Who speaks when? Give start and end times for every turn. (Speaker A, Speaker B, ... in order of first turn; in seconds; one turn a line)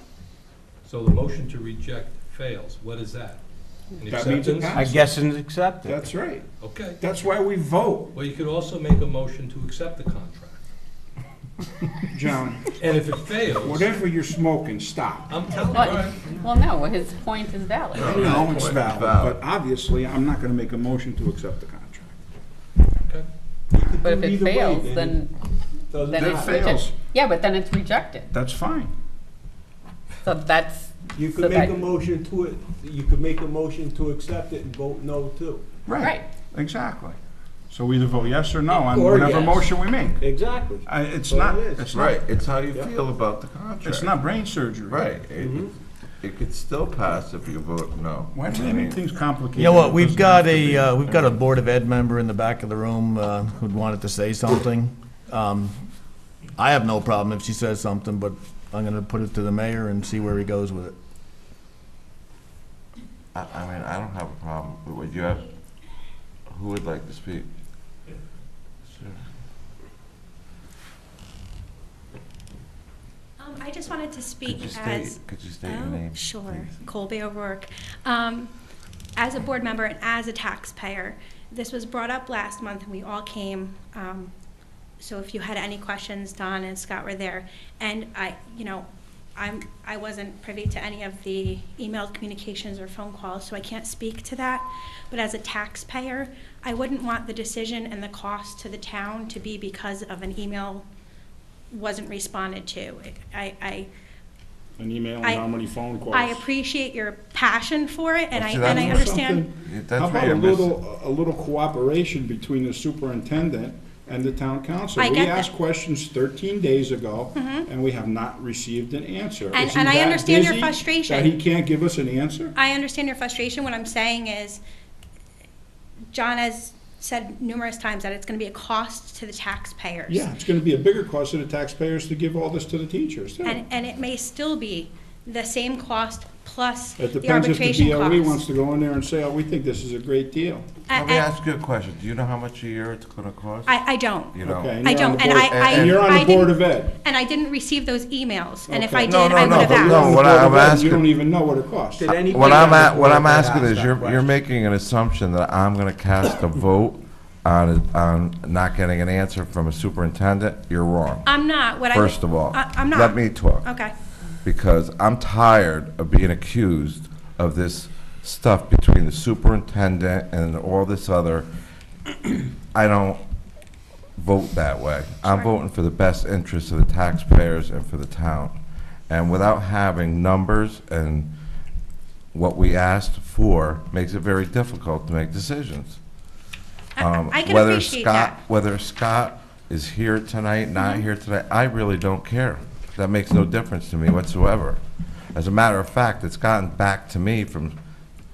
Speaker A: 0.8-3.4
Speaker A: 4.0-5.2
Speaker B: 4.1-5.1
Speaker C: 4.8-6.0
Speaker B: 5.8-6.4
Speaker A: 6.6-7.0
Speaker B: 7.0-8.2
Speaker A: 8.1-10.6
Speaker B: 12.1-12.7
Speaker A: 12.8-14.0
Speaker B: 13.6-15.4
Speaker A: 15.3-16.3
Speaker D: 15.7-18.1
Speaker E: 17.9-19.4
Speaker B: 18.0-22.1
Speaker C: 23.7-25.1
Speaker D: 24.0-25.3
Speaker C: 25.9-26.5
Speaker D: 26.0-28.3
Speaker B: 26.1-26.9
Speaker B: 28.3-28.9
Speaker D: 30.2-31.8
Speaker C: 31.2-35.6
Speaker B: 35.9-37.2
Speaker D: 36.0-36.2
Speaker B: 37.7-40.2
Speaker C: 38.7-39.7
Speaker C: 40.2-41.9
Speaker B: 40.9-42.2
Speaker E: 41.9-44.1
Speaker B: 43.8-45.0
Speaker E: 44.9-49.0
Speaker C: 45.4-45.7
Speaker B: 48.3-51.3
Speaker F: 49.5-55.8
Speaker F: 56.6-60.9
Speaker E: 63.3-65.5
Speaker E: 66.5-67.5
Speaker E: 68.9-69.2
Speaker G: 73.4-78.5
Speaker E: 74.4-76.7
Speaker G: 79.2-84.3
Speaker G: 85.0-100.8
Speaker G: 101.7-103.9
Speaker B: 104.8-106.4
Speaker G: 106.1-109.4
Speaker E: 108.3-110.8
Speaker B: 108.5-122.5
Speaker G: 115.0-115.5
Speaker G: 117.3-117.7
Speaker G: 119.5-121.3
Speaker G: 122.5-124.6
Speaker G: 126.1-130.2
Speaker B: 130.1-133.6
Speaker G: 133.4-138.4
Speaker B: 137.0-140.8
Speaker G: 140.9-141.3
Speaker E: 140.9-143.8
Speaker G: 143.7-150.1
Speaker E: 144.3-144.8
Speaker B: 144.4-146.9
Speaker E: 145.4-146.0
Speaker B: 148.7-152.2
Speaker E: 149.0-151.1
Speaker C: 152.0-154.3
Speaker E: 152.1-161.3
Speaker G: 161.2-163.9
Speaker E: 161.9-163.8
Speaker E: 164.4-171.4
Speaker E: 172.7-173.2
Speaker E: 174.2-178.6
Speaker G: 175.2-175.5
Speaker E: 179.1-181.3
Speaker E: 182.3-186.0
Speaker G: 187.0-188.4
Speaker E: 187.0-194.8
Speaker G: 190.8-191.0
Speaker E: 195.3-197.8